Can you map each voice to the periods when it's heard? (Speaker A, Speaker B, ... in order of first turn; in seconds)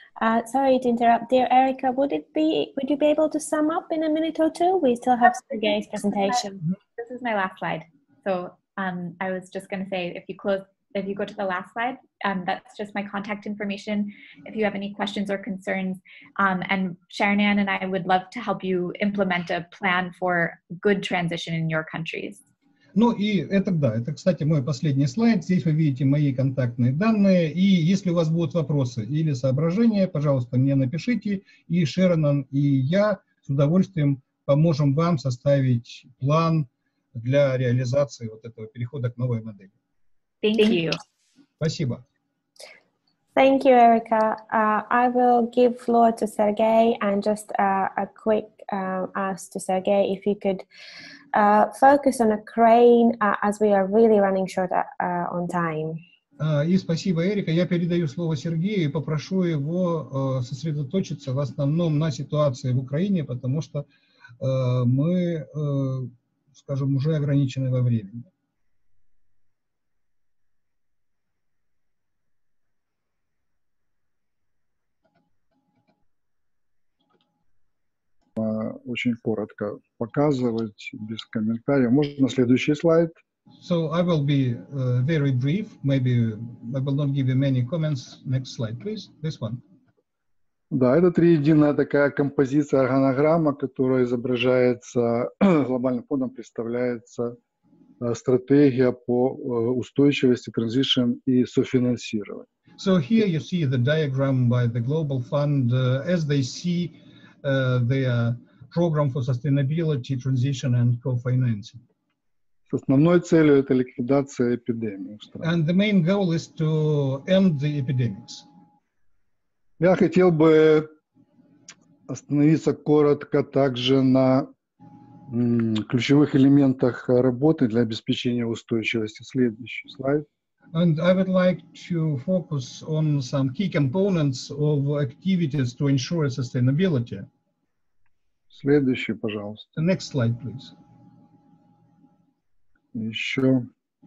Speaker A: 0.2-6.6, 43.4-50.6, 51.3-56.0
Speaker B: 7.0-22.4, 40.4-41.0
Speaker C: 22.9-39.7, 41.6-42.0, 56.4-63.9, 64.4-68.3, 83.6-89.6, 102.8-111.8, 115.4-118.5, 130.7-137.3, 139.7-140.7
Speaker D: 78.3-83.2, 90.7-97.3, 98.0-102.5, 112.7-115.5, 119.8-120.9, 122.1-124.5, 125.3-130.2, 138.5-139.7, 142.9-143.7